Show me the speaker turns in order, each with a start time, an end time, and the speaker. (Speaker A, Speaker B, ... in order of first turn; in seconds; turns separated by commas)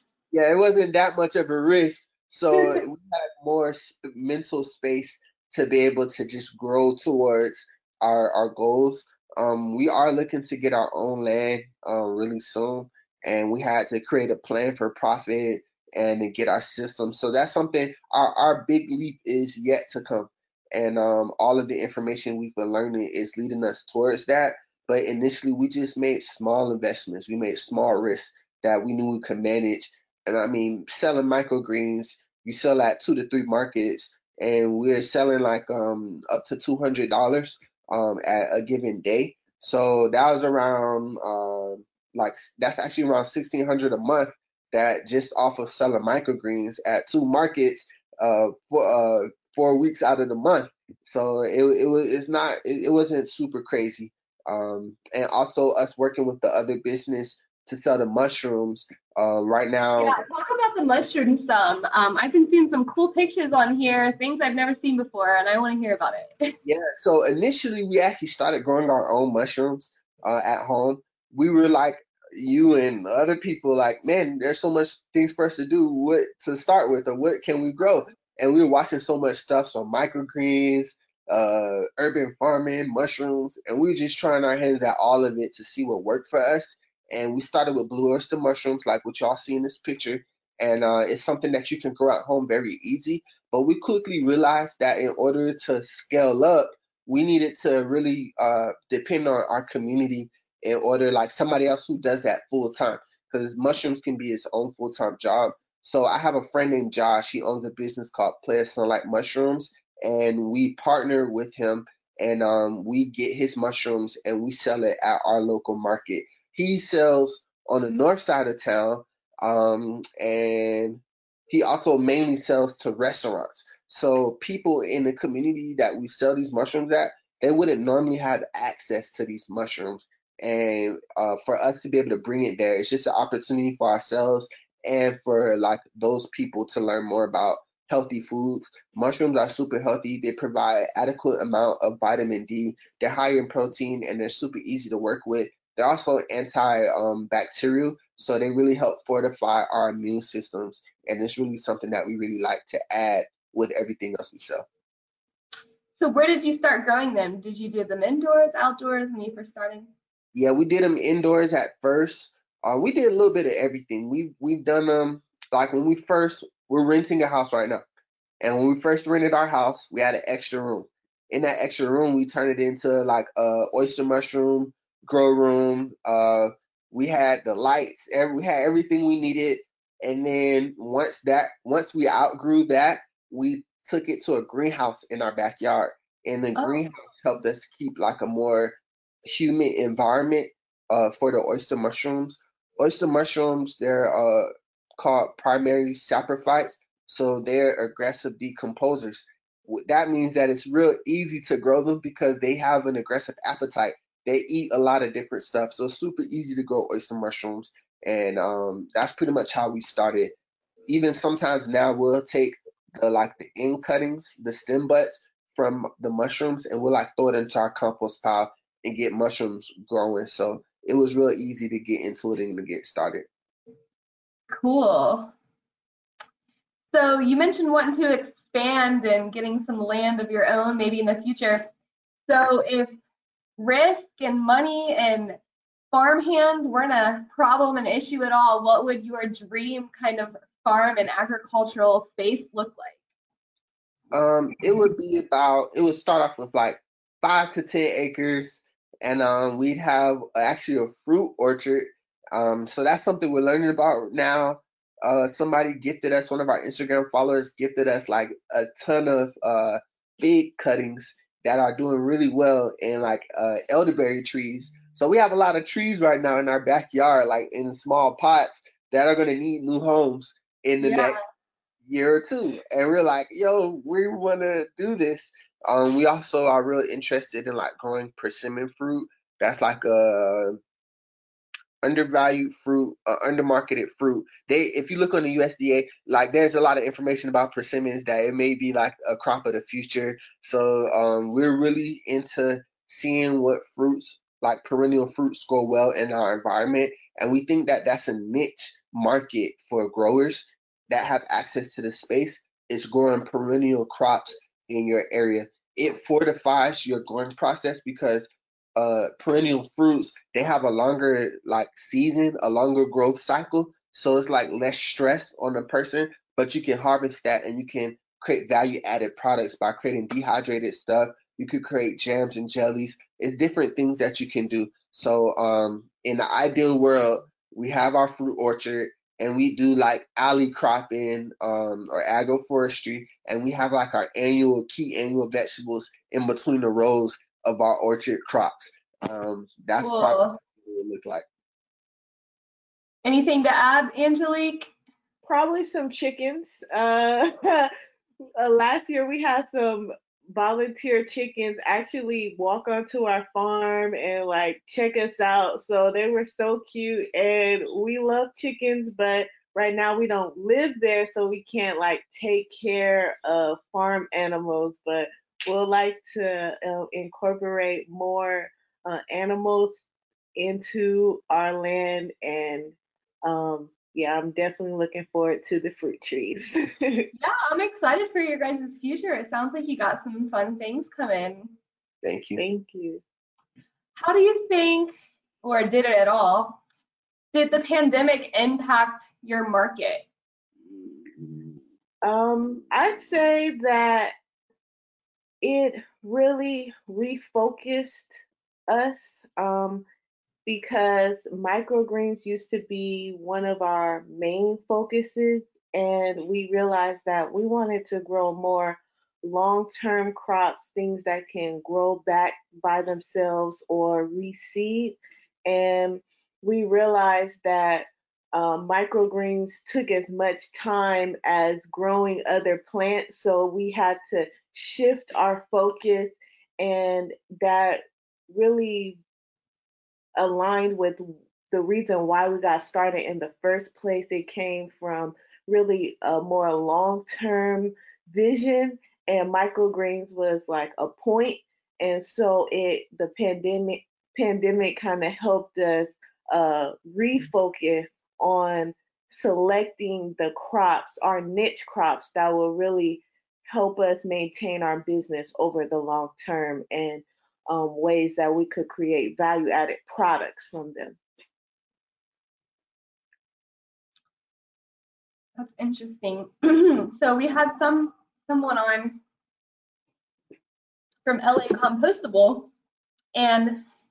Speaker A: 0.3-60.2, Speaker B: 2.5-2.8, Speaker B: 60.0-66.5, Speaker A: 66.7-154.7, Speaker B: 155.9-159.9, Speaker A: 160.3-167.8, Speaker A: 168.4-210.3, Speaker A: 210.9-223.3, Speaker B: 224.5-225.3, Speaker B: 226.9-231.7, Speaker B: 232.3-233.0, Speaker B: 233.6-235.4, Speaker B: 235.9-243.0, Speaker A: 244.1-271.2, Speaker B: 270.8-271.2, Speaker A: 271.9-280.6, Speaker A: 281.8-341.2, Speaker B: 339.8-340.4, Speaker B: 343.0-344.7, Speaker C: 345.2-347.7, Speaker C: 348.4-369.8, Speaker C: 370.4-377.1, Speaker B: 377.2-381.5, Speaker A: 382.0-382.4, Speaker C: 382.4-383.0, Speaker B: 384.0-386.6, Speaker B: 387.3-390.1, Speaker C: 392.0-394.1, Speaker C: 395.4-398.1, Speaker C: 398.7-399.9, Speaker C: 400.5-429.0, Speaker C: 430.2-461.0, Speaker B: 465.4-469.0, Speaker B: 471.1-472.5, Speaker B: 473.1-473.7